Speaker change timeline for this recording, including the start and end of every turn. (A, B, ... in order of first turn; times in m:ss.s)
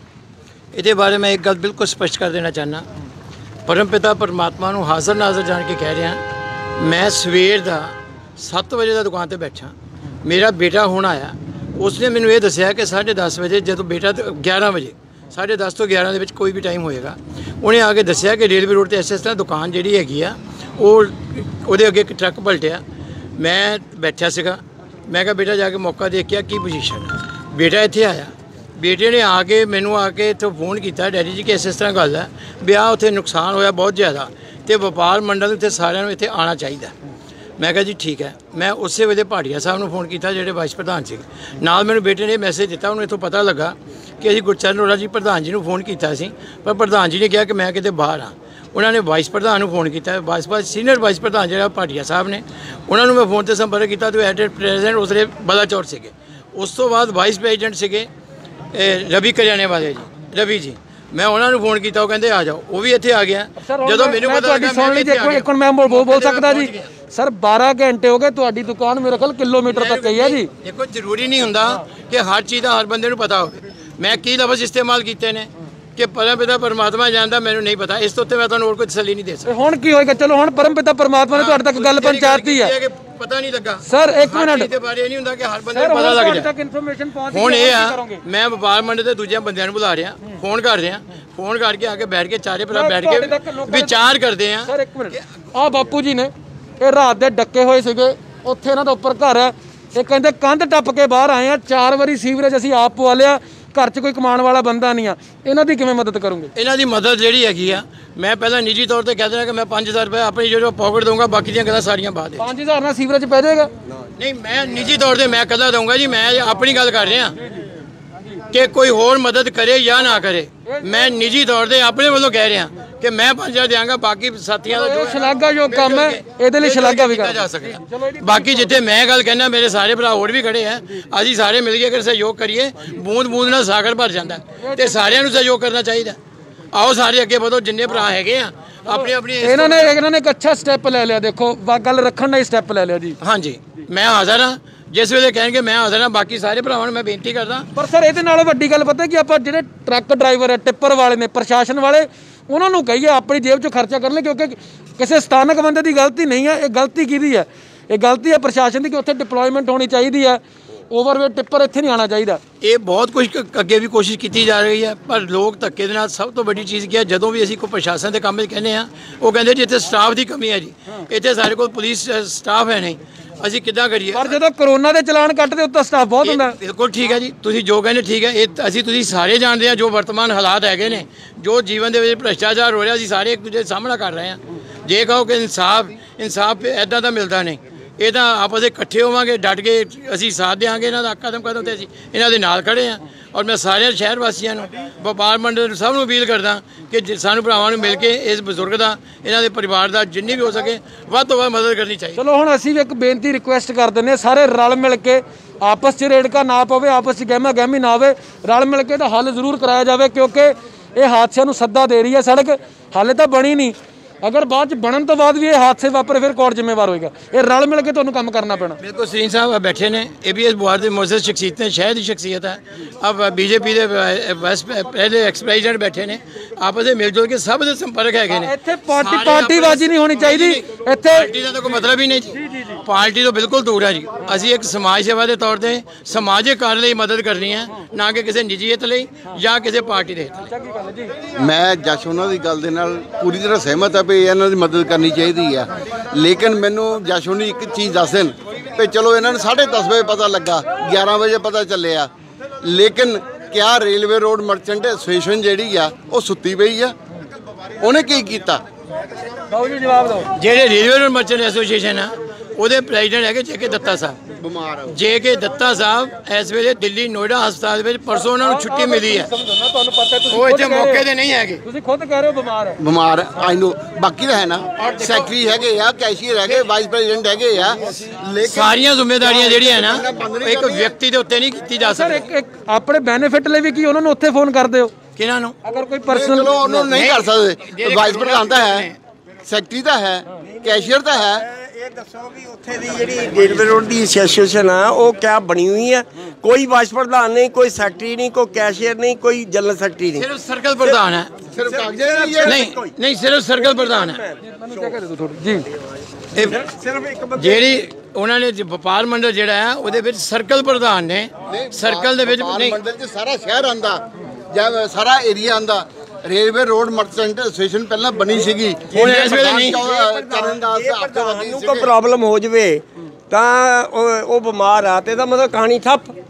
0:00.8-0:02.8 A
0:03.7-0:06.2 A
0:06.8-0:09.7 A
0:10.2-0:22.8 A
0:23.4-0:36.9 A
0:37.6-0:58.1 A
0:58.7-1:06.9 A
1:03.6-1:10.5 B
1:09.7-1:19.5 A
1:19.5-1:22.7 B
1:21.3-1:26.5 A
1:23.8-1:24.7 B
1:25.7-1:28.2 B
1:27.3-1:35.2 A
1:32.7-1:34.0 B
1:34.7-1:46.5 B
1:46.6-1:52.4 A
1:52.4-1:53.7 B
1:54.2-1:57.4 A
1:58.5-2:16.2 A
2:00.7-2:01.1 B
2:04.7-2:08.7 B
2:14.6-2:15.2 B
2:16.7-2:19.9 A
2:18.9-2:23.2 B
2:23.2-2:27.7 A
2:27.8-2:42.4 B
2:42.6-2:54.3 A
2:54.1-2:56.6 B
2:56.2-3:22.2 A
3:22.2-3:38.8 B
3:38.8-4:00.5 A
3:48.3-3:51.3 B
3:52.3-3:52.8 B
4:00.5-4:01.1 B
4:01.4-4:12.1 C
4:12.6-4:17.0 C
4:17.8-4:18.6 C
4:19.5-4:20.3 B
4:20.4-4:24.2 A
4:24.4-4:25.0 C
4:24.9-4:29.3 A
4:28.4-4:31.0 B
4:30.3-4:31.6 A
4:31.6-4:32.8 B
4:32.8-4:41.0 C
4:34.8-4:35.3 A
4:38.4-4:42.3 A
4:41.8-4:44.9 B
4:45.2-4:45.6 A
4:45.6-4:46.9 B
4:46.1-4:48.9 C
4:46.9-4:49.0 A
4:49.4-4:51.5 C
4:50.4-5:00.3 D
5:00.2-5:01.4 A
5:01.5-5:02.7 C
5:01.6-5:02.9 D
5:02.5-5:04.2 A
5:03.6-5:05.0 D
5:04.4-5:05.7 B
5:06.4-5:06.6 A
5:06.4-5:07.8 D
5:07.4-5:12.8 A
5:11.5-5:21.9 C
5:18.9-5:19.8 A
5:18.9-5:26.1 D